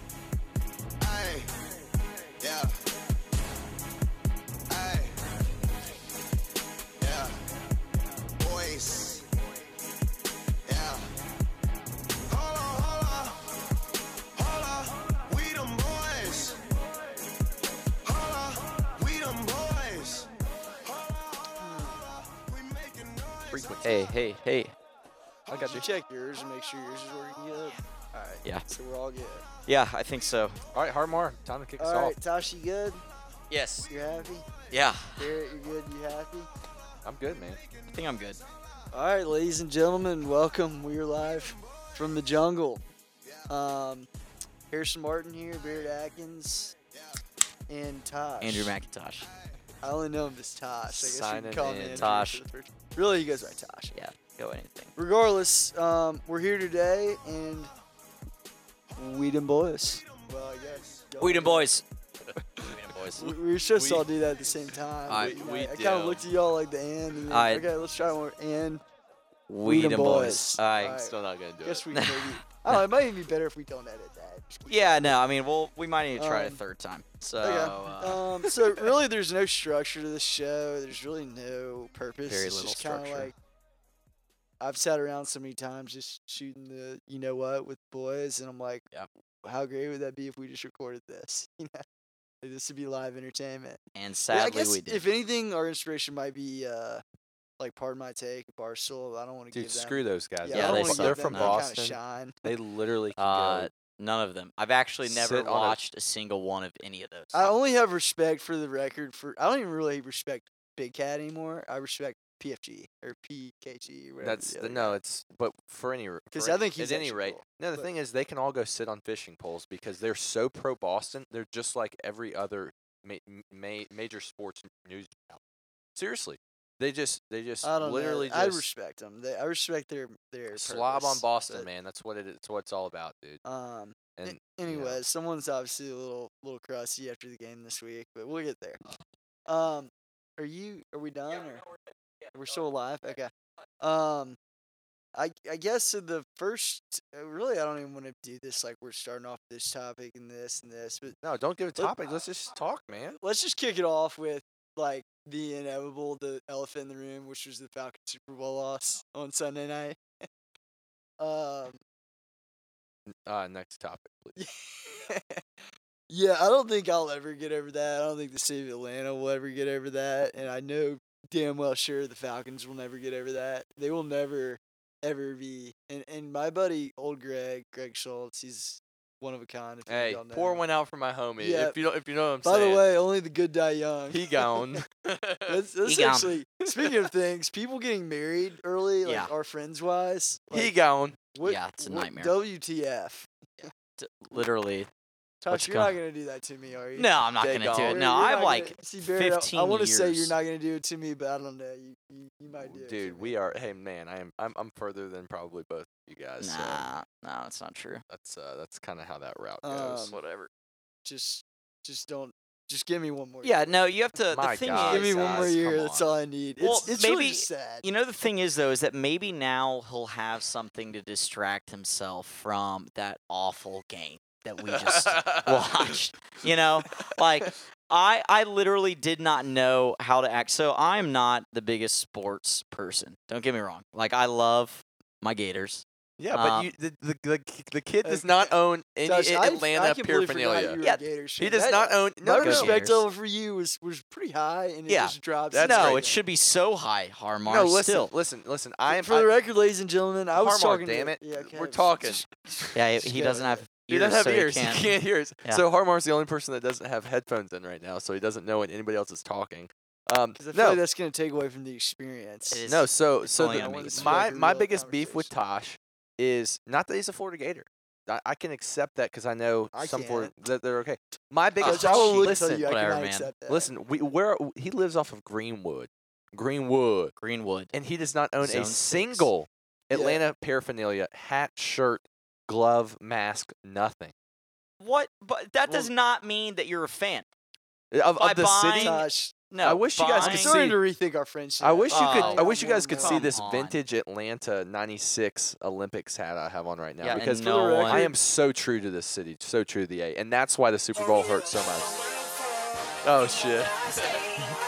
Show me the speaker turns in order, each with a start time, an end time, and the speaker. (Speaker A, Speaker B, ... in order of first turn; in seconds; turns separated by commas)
Speaker A: 1.0-2.8, Speaker A: 4.7-5.2, Speaker A: 7.0-7.5, Speaker A: 8.4-9.3, Speaker A: 10.6-11.1, Speaker A: 12.3-13.6, Speaker A: 14.3-17.0, Speaker A: 18.0-23.7, Speaker B: 21.6-21.9, Speaker C: 23.5-24.1, Speaker D: 23.8-24.7, Speaker C: 25.5-25.9, Speaker B: 25.5-29.4, Speaker D: 29.6-30.6, Speaker C: 30.7-32.2, Speaker B: 31.8-33.0, Speaker D: 33.5-33.9, Speaker B: 33.9-34.5, Speaker A: 33.9-35.1, Speaker D: 34.7-35.2, Speaker B: 35.0-36.5, Speaker A: 37.0-38.9, Speaker C: 37.0-37.6, Speaker D: 37.9-38.4, Speaker B: 38.9-42.8, Speaker A: 41.3-42.2, Speaker A: 43.2-43.5, Speaker B: 43.5-44.1, Speaker B: 44.7-46.7, Speaker B: 47.7-48.8, Speaker D: 48.4-49.3, Speaker A: 49.2-49.5, Speaker B: 49.8-53.9, Speaker C: 50.9-52.2, Speaker D: 52.0-52.4, Speaker D: 53.9-54.9, Speaker B: 55.0-57.7, Speaker B: 59.0-61.7, Speaker A: 60.0-61.1, Speaker D: 61.2-61.8, Speaker D: 62.6-63.3, Speaker B: 63.1-68.8, Speaker C: 63.7-64.1, Speaker C: 65.0-66.3, Speaker D: 67.3-67.7, Speaker D: 69.5-71.0, Speaker B: 69.6-75.2, Speaker C: 70.8-71.8, Speaker D: 71.9-72.8, Speaker D: 74.7-78.2, Speaker B: 76.2-76.6, Speaker B: 77.4-83.3, Speaker D: 82.2-83.3, Speaker B: 84.6-88.9, Speaker B: 89.4-91.8, Speaker B: 92.4-97.0, Speaker D: 93.9-95.1, Speaker B: 97.6-102.5, Speaker C: 99.5-103.7, Speaker D: 100.5-101.6, Speaker D: 103.2-107.5, Speaker C: 105.0-105.8, Speaker B: 107.3-115.0, Speaker C: 114.2-125.4, Speaker B: 116.3-117.9, Speaker C: 125.9-128.7, Speaker B: 127.6-131.7, Speaker C: 130.5-133.4, Speaker B: 133.4-138.8, Speaker C: 134.2-135.0, Speaker B: 139.4-141.7, Speaker B: 142.3-144.4, Speaker B: 145.1-151.2, Speaker C: 151.2-153.2, Speaker B: 153.2-160.0, Speaker B: 161.2-161.8, Speaker C: 163.1-164.4, Speaker B: 164.4-165.4, Speaker B: 166.1-180.6, Speaker C: 179.9-182.9, Speaker B: 181.4-181.8, Speaker B: 182.4-184.8, Speaker C: 184.1-185.6, Speaker B: 185.5-190.7, Speaker D: 185.8-186.3, Speaker C: 186.7-187.1, Speaker D: 189.0-189.3, Speaker C: 190.5-191.2, Speaker B: 191.3-193.3, Speaker D: 191.4-192.3, Speaker D: 193.6-194.9, Speaker B: 195.4-197.1, Speaker D: 195.5-196.0, Speaker D: 196.9-200.3, Speaker C: 197.4-198.0, Speaker B: 197.7-203.3, Speaker C: 202.6-206.8, Speaker D: 206.4-208.0, Speaker C: 208.1-210.2, Speaker B: 209.6-210.2, Speaker D: 210.1-210.5, Speaker B: 211.0-213.6, Speaker D: 213.4-215.6, Speaker C: 214.3-216.1, Speaker B: 214.8-217.8, Speaker D: 216.6-236.7, Speaker C: 224.6-225.9, Speaker C: 236.2-240.8, Speaker B: 238.0-246.2, Speaker C: 241.4-242.7, Speaker D: 242.3-243.1, Speaker D: 244.9-248.1, Speaker C: 245.5-246.1, Speaker C: 247.4-249.3, Speaker B: 248.9-252.4, Speaker C: 250.3-252.6, Speaker D: 252.7-255.6, Speaker B: 252.9-253.6, Speaker C: 253.9-260.8, Speaker B: 260.4-262.6, Speaker D: 262.5-264.2, Speaker C: 262.6-272.7, Speaker B: 263.4-265.3, Speaker B: 269.7-270.3, Speaker D: 271.6-273.3, Speaker B: 271.6-273.7, Speaker C: 273.5-277.1, Speaker D: 277.2-277.7, Speaker C: 277.7-284.1, Speaker D: 278.4-279.3, Speaker B: 279.9-280.2, Speaker D: 284.8-287.3, Speaker C: 287.9-289.1, Speaker D: 288.2-290.6, Speaker B: 288.7-289.4, Speaker C: 289.6-290.8, Speaker B: 290.2-293.3, Speaker C: 291.6-301.9, Speaker D: 291.9-292.5, Speaker D: 293.0-293.8, Speaker D: 297.0-298.1, Speaker B: 297.1-298.1, Speaker C: 303.0-304.2